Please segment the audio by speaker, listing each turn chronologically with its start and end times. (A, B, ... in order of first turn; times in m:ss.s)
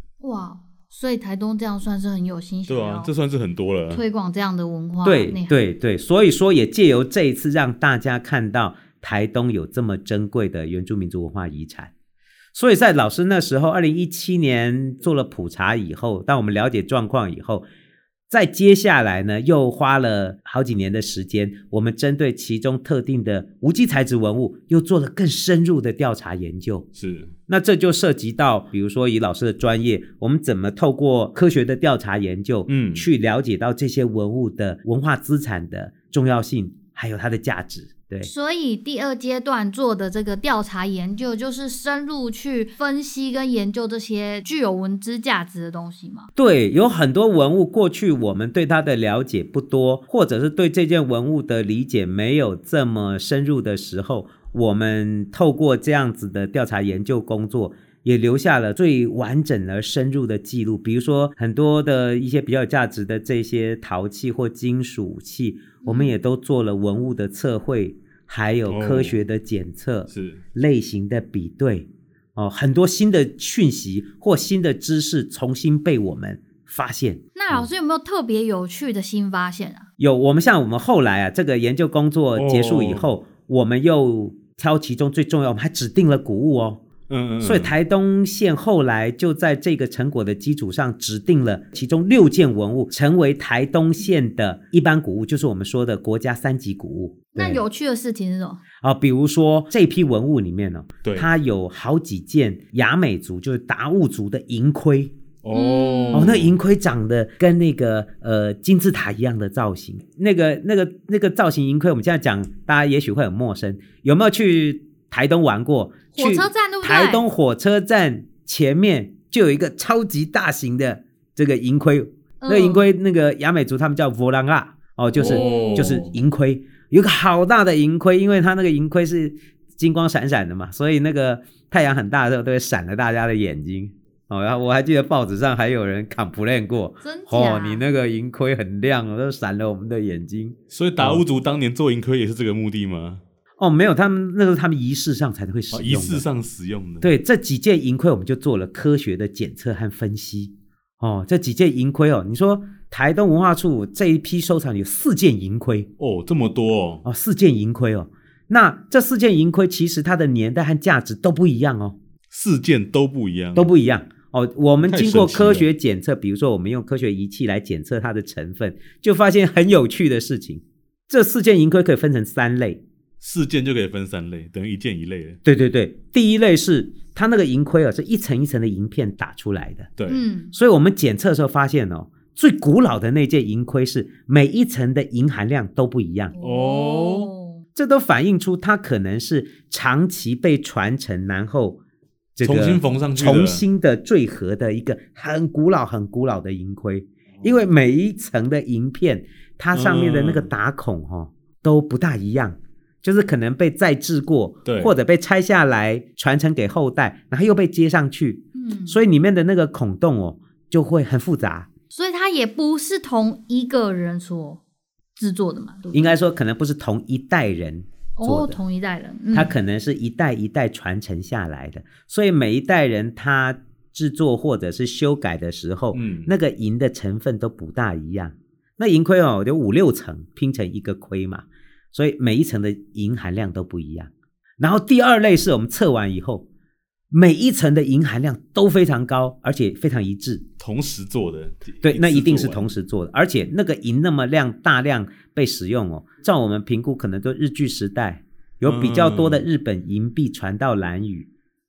0:00.2-0:03.1 A
0:02.7-0:04.0 B
0:03.9-0:05.5 A
0:05.0-0:11.9 C
0:12.5-0:17.6 C
0:18.3-0:26.9 C
0:27.0-0:27.3 B
0:27.5-0:38.3 C
0:32.7-0:33.1 B
0:38.2-0:46.3 A
0:46.4-1:17.2 C
1:05.8-1:06.1 A
1:08.7-1:09.2 B
1:10.1-1:10.4 B
1:17.4-1:19.9 A
1:20.0-1:26.8 C
1:22.4-1:23.1 B
1:27.1-1:27.7 B
1:27.4-1:37.6 C
1:37.3-1:38.6 A
1:38.8-1:45.2 C
1:41.0-1:41.3 B
1:45.4-1:46.6 B
1:45.5-1:46.3 A
1:46.1-2:21.2 C
1:56.1-1:57.2 A
2:02.4-2:02.8 A
2:05.1-2:06.1 B
2:05.2-2:06.0 A
2:17.0-2:17.8 A
2:20.7-2:23.2 B
2:23.6-2:26.2 C
2:25.7-2:27.1 B
2:27.0-2:35.9 C
2:36.0-2:37.0 B
2:37.0-2:42.0 C
2:42.3-2:43.7 B
2:43.5-2:52.8 C
2:44.9-2:45.7 B
2:53.2-2:55.4 B
2:55.4-2:59.9 C
3:00.0-3:00.2 B
3:00.1-3:00.5 A
3:00.5-3:06.3 C
3:06.3-3:07.6 A
3:06.4-3:07.3 B
3:07.8-3:11.8 C
3:12.4-3:31.7 C
3:12.4-3:13.6 B
3:19.7-3:20.5 B
3:24.6-3:24.9 B
3:28.5-3:29.0 A
3:31.9-3:34.6 A
3:35.2-3:36.2 A
3:35.9-3:38.6 C
3:38.2-3:39.5 A
3:39.3-3:56.4 C
3:45.9-3:46.3 B
3:57.1-4:00.4 C
4:00.6-4:02.7 B
4:01.8-4:11.3 C
4:08.6-4:09.4 B